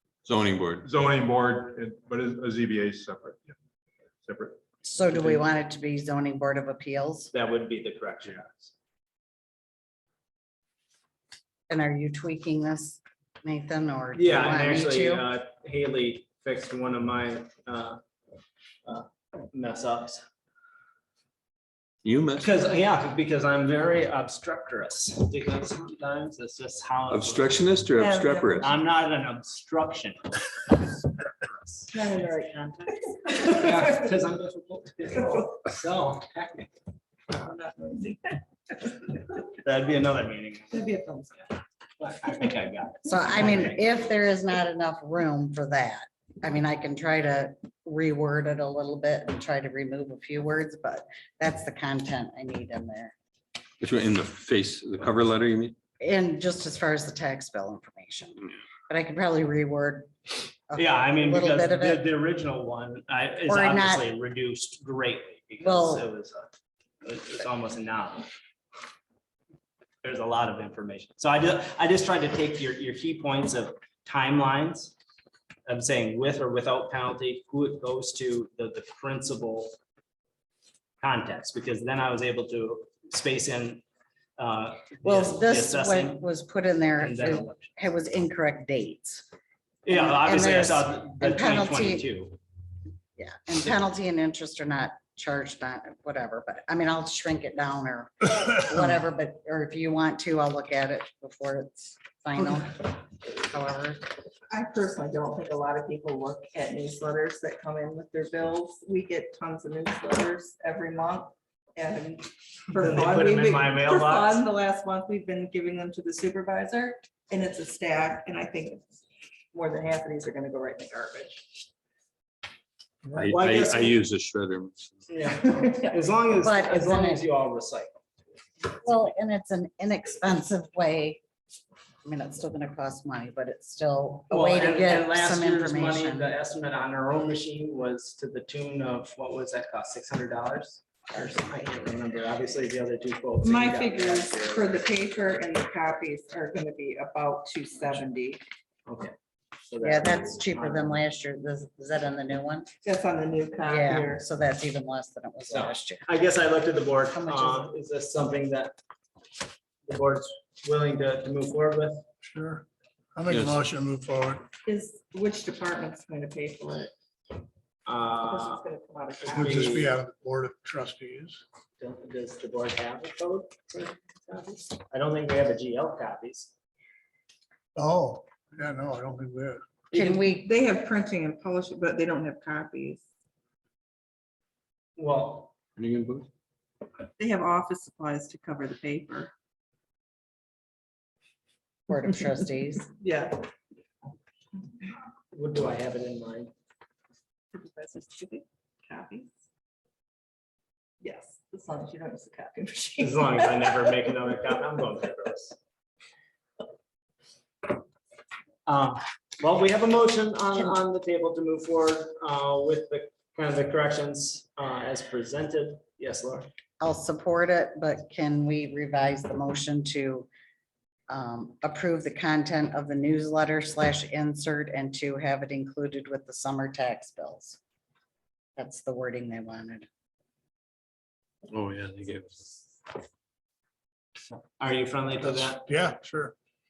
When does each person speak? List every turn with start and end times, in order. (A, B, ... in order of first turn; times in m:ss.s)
0:00.2-0:00.8 A
0:00.8-0:03.5 B
0:04.2-0:04.6 B
0:04.8-0:07.3 C
0:05.1-0:05.4 D
0:07.3-0:08.7 D
0:11.7-0:15.2 C
0:14.1-0:18.0 D
0:18.8-0:20.2 D
0:22.0-0:22.5 A
0:22.4-0:27.6 D
0:27.1-0:28.7 A
0:27.9-0:28.7 E
0:28.6-0:31.9 D
0:31.9-0:33.8 E
0:33.5-0:36.7 D
0:37.3-0:38.4 E
0:39.6-0:40.8 D
0:40.7-0:41.5 E
0:42.0-0:43.8 D
0:43.0-0:53.1 C
0:53.8-0:55.7 A
0:56.0-1:00.1 C
1:00.7-1:02.0 C
1:00.7-1:06.5 D
1:03.5-1:04.0 C
1:05.6-1:06.0 C
1:07.0-1:08.3 D
1:10.0-1:14.9 D
1:15.6-1:19.8 D
1:21.0-1:23.8 D
1:24.4-1:26.2 D
1:25.0-1:29.2 C
1:27.0-1:27.7 D
1:29.8-1:32.4 D
1:29.9-1:32.1 C
1:33.2-1:44.0 C
1:44.5-1:59.0 E
1:52.8-1:54.4 D
1:59.5-2:01.5 E
2:03.1-2:05.1 A
2:03.3-2:04.0 D
2:05.1-2:07.9 D
2:06.4-2:07.2 C
2:08.8-2:11.2 C
2:12.0-2:16.3 C
2:14.3-2:24.8 D
2:23.4-2:28.4 E
2:28.8-2:31.0 D
2:29.8-2:32.7 C
2:32.8-2:34.2 E
2:33.6-2:36.0 C
2:35.5-2:38.8 D
2:37.1-2:37.7 C
2:39.8-2:42.0 D
2:42.2-2:42.6 F
2:43.2-2:44.4 F
2:43.3-2:43.6 A
2:44.6-2:46.9 E
2:47.8-2:48.6 D
2:48.2-2:49.9 E
2:49.3-2:49.9 D
2:49.3-2:51.4 F
2:51.8-2:56.5 D
2:57.8-2:59.6 F
2:59.9-3:00.2 D
2:59.9-3:00.5 C
2:59.9-3:03.0 E
3:05.0-3:05.5 D
3:05.8-3:06.2 A
3:07.2-3:09.3 E
3:11.9-3:12.9 C
3:12.9-3:13.4 E
3:15.3-3:16.5 D
3:17.5-3:19.3 E
3:21.0-3:23.8 E
3:23.0-3:25.6 D
3:28.6-3:36.5 D
3:36.8-3:40.3 C
3:41.1-3:47.6 C
3:48.6-3:49.9 C
3:51.5-3:52.4 A
3:54.6-3:55.6 D
3:55.4-3:56.3 F